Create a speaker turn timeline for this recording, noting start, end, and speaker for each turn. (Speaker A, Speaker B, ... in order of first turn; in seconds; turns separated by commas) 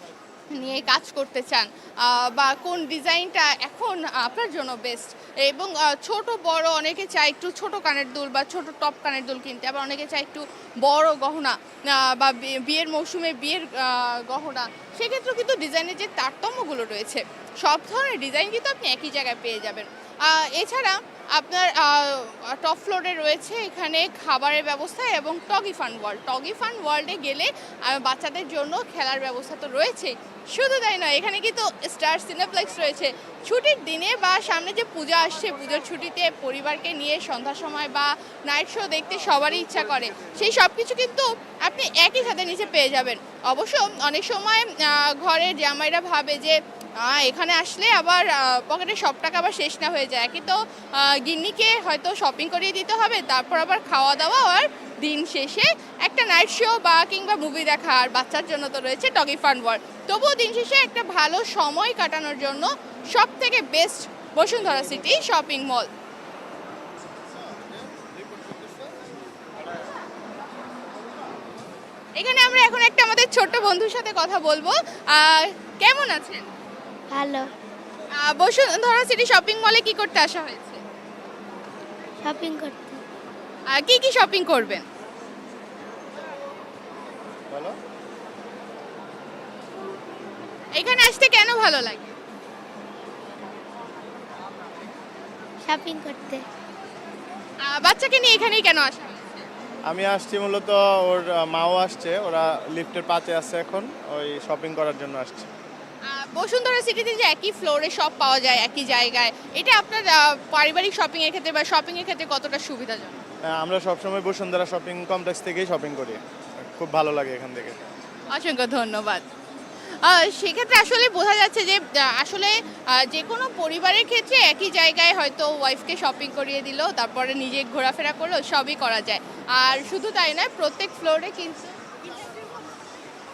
Speaker A: 0.5-65.9, Speaker A: 72.2-76.4, Speaker B: 77.1-77.5, Speaker A: 78.2-80.8, Speaker B: 82.2-83.0, Speaker A: 83.7-84.8, Speaker A: 90.7-92.1, Speaker B: 95.7-96.4, Speaker A: 97.6-99.5, Speaker C: 99.9-105.5, Speaker A: 106.1-113.2, Speaker C: 113.5-117.8, Speaker A: 118.3-119.2, Speaker A: 120.0-131.8